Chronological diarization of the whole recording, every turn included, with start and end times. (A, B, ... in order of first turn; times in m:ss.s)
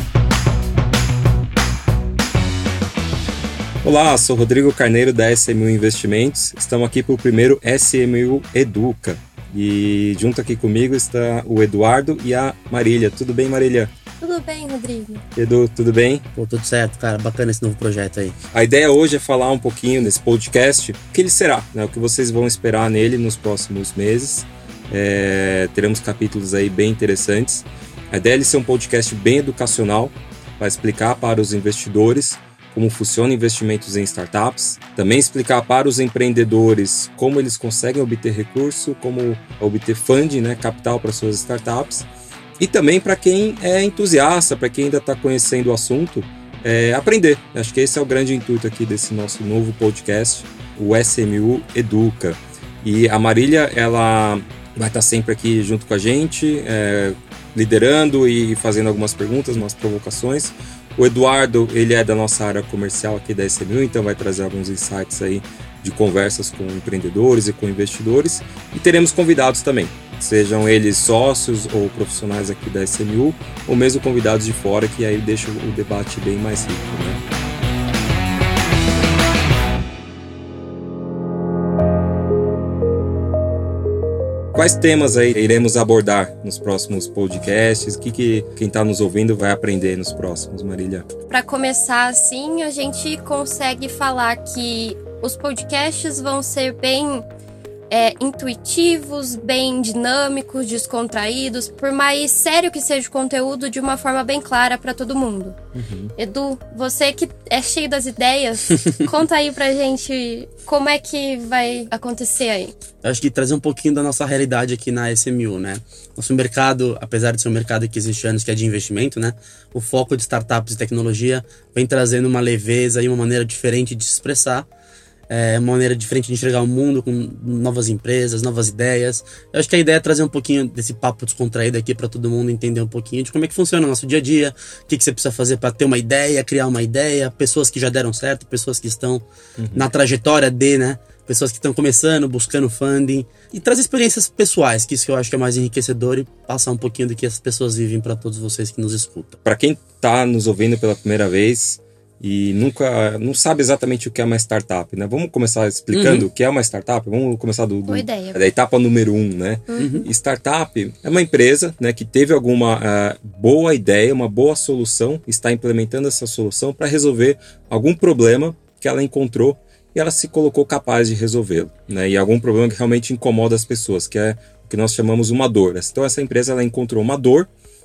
0:03.8-0:13.9 A
0:14.2-0:15.2 B
0:15.3-0:16.2 A
0:16.3-0:18.4 C
0:18.5-0:42.1 A
0:42.6-1:17.2 A
1:24.5-1:31.1 A
1:31.3-1:37.2 B
1:37.9-1:45.6 B
1:45.7-1:46.1 A
1:46.2-1:52.7 B
1:48.7-1:49.1 C
1:53.0-2:04.7 C
2:05.3-2:29.4 C
2:19.6-2:19.9 A
2:29.4-2:57.5 A
2:35.9-2:36.3 C
2:37.9-2:38.4 B
2:39.7-2:40.0 B
2:39.8-2:40.1 C